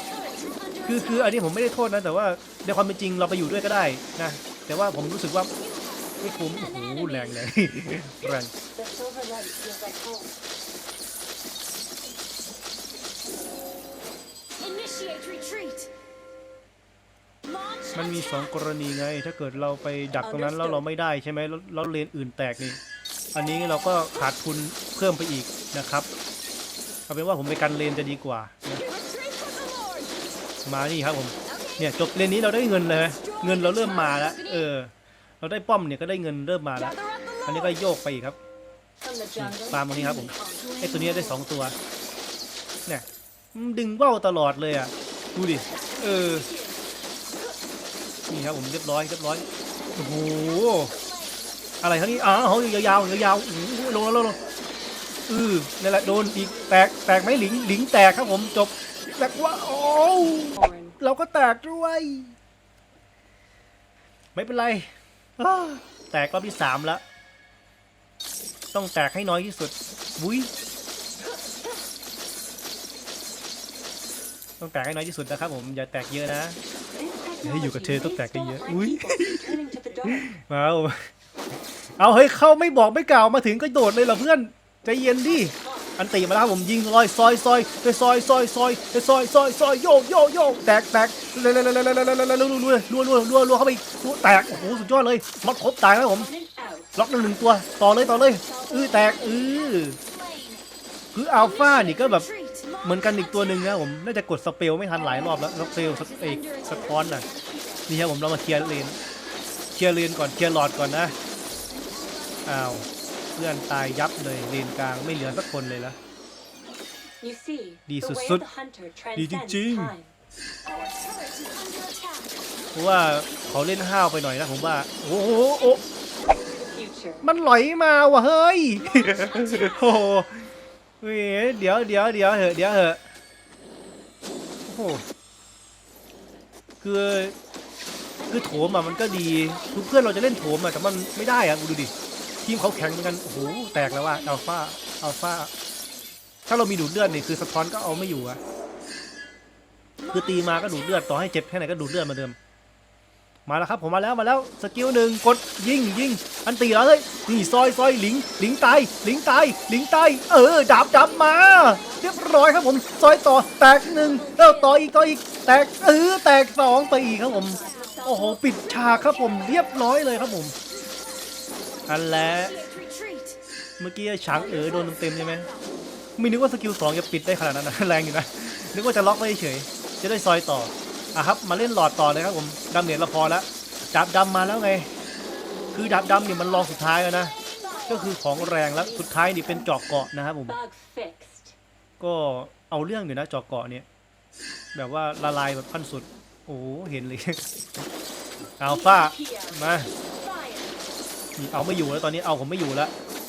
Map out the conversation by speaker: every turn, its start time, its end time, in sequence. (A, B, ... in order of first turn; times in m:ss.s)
0:00.2-0:01.1 A
0:00.8-0:05.5 B
0:05.6-0:07.3 A
0:06.2-0:08.5 B
0:08.8-0:10.4 C
0:14.6-0:15.9 A
0:17.9-0:22.8 B
0:20.2-0:20.8 C
0:23.4-0:26.1 B
0:27.1-0:28.8 B
0:28.9-0:30.1 A
0:30.6-0:38.4 B
0:33.2-0:34.5 A
0:37.0-0:37.5 A
0:39.0-0:40.8 C
0:39.4-0:41.8 B
0:40.8-0:41.3 A
0:42.9-0:46.5 B
0:45.6-0:46.9 C
0:48.3-0:50.9 B
0:51.8-0:54.4 B
0:55.3-1:02.4 B
0:56.1-0:56.7 C
1:00.6-1:01.0 C
1:04.4-1:07.0 B
1:08.7-1:10.5 B
1:14.6-1:16.6 B
1:16.9-1:20.3 C
1:17.4-1:19.4 B
1:20.1-1:21.1 B
1:22.0-1:36.3 B
1:25.5-1:26.0 C
1:34.4-1:34.9 C
1:36.1-1:37.0 C
1:37.0-1:40.0 B
1:38.4-1:39.5 C
1:40.0-1:40.6 A
1:41.1-1:42.3 B
1:41.5-1:42.8 A
1:42.8-1:47.3 B
1:45.3-1:46.8 A
1:46.8-1:47.9 C
1:47.9-1:49.0 B
1:49.7-1:51.2 B
1:51.7-1:52.4 A
1:52.5-1:56.0 B
1:57.2-2:00.1 C
1:57.9-1:58.4 B
1:59.2-1:59.9 B
2:00.7-2:02.4 A
2:02.7-2:05.8 B
2:06.3-2:07.3 C
2:07.2-2:10.5 B
2:09.0-2:09.8 C
2:11.0-2:13.0 B
2:14.7-2:15.0 B
2:16.8-2:17.4 B
2:18.3-2:21.9 B
2:22.4-2:25.5 B
2:26.5-2:28.4 B
2:30.1-2:32.4 B
2:33.5-2:50.6 B
2:40.8-2:42.8 C
2:44.1-2:44.7 A
2:47.3-2:49.1 C
2:47.6-2:48.0 A
2:49.1-2:49.8 A
2:50.8-2:51.3 A
2:51.9-2:52.6 B
2:52.4-2:53.4 A
2:53.8-2:55.5 B
2:55.0-2:55.6 A
2:56.2-3:04.9 B
3:05.7-3:07.3 B
3:07.6-3:09.7 C
3:07.9-3:10.6 B
3:10.5-3:11.6 C
3:12.0-3:13.9 B
3:14.7-3:17.4 B
3:18.6-3:19.9 B
3:18.6-3:20.8 C
3:21.4-3:22.9 B